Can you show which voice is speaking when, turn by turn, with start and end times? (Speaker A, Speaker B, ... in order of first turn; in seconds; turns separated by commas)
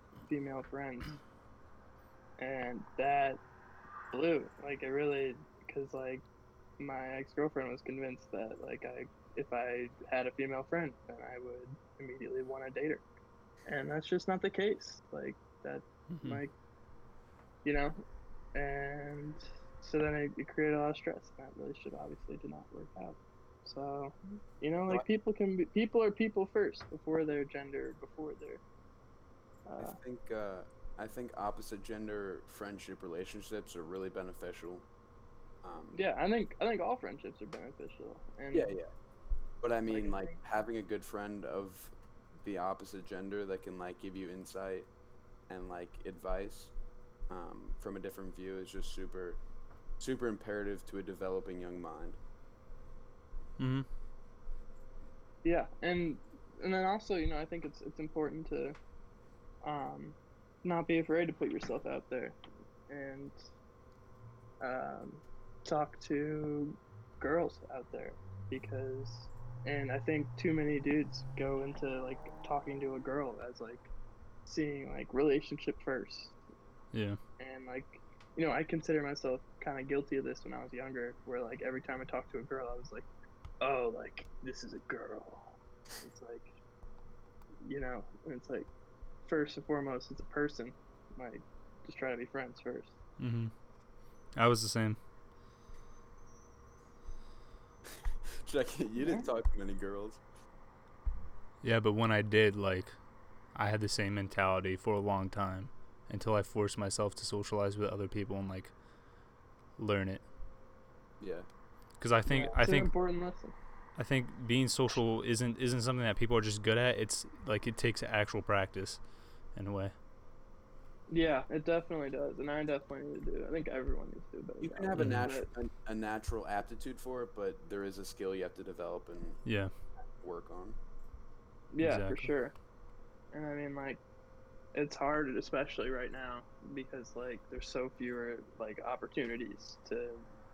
Speaker A: 0.3-1.2, Speaker A: 2.4-3.4, Speaker A: 4.1-6.2, Speaker A: 6.8-13.0, Speaker A: 13.7-16.5, Speaker B: 16.1-16.4, Speaker A: 17.6-18.0, Speaker A: 18.5-28.6, Speaker A: 29.6-30.0, Speaker C: 29.8-34.9, Speaker C: 35.6-36.0, Speaker A: 35.9-38.7, Speaker C: 38.5-38.9, Speaker C: 39.6-41.9, Speaker A: 39.9-40.4, Speaker C: 42.4-44.9, Speaker C: 45.5-46.7, Speaker C: 47.3-49.4, Speaker C: 50.0-52.2, Speaker B: 53.6-53.9, Speaker A: 55.4-58.8, Speaker A: 59.6-62.4, Speaker A: 62.9-63.4, Speaker A: 64.6-73.9, Speaker A: 74.5-76.3, Speaker B: 76.9-77.2, Speaker A: 77.4-83.0, Speaker A: 83.6-86.5, Speaker A: 87.6-88.7, Speaker A: 89.2-92.9, Speaker B: 93.2-93.5, Speaker B: 94.3-95.0, Speaker C: 98.2-100.2, Speaker A: 99.0-99.3, Speaker B: 101.6-102.9, Speaker B: 103.5-108.7, Speaker B: 109.8-110.2, Speaker C: 111.2-111.5, Speaker B: 112.0-112.9, Speaker A: 112.3-113.5, Speaker B: 114.0-119.0, Speaker B: 119.5-119.9, Speaker A: 121.1-125.5, Speaker C: 124.6-129.4, Speaker B: 125.0-125.2, Speaker B: 129.4-129.7, Speaker C: 130.2-130.8, Speaker A: 131.7-132.5, Speaker B: 131.8-132.3, Speaker A: 133.3-134.0, Speaker A: 134.7-140.2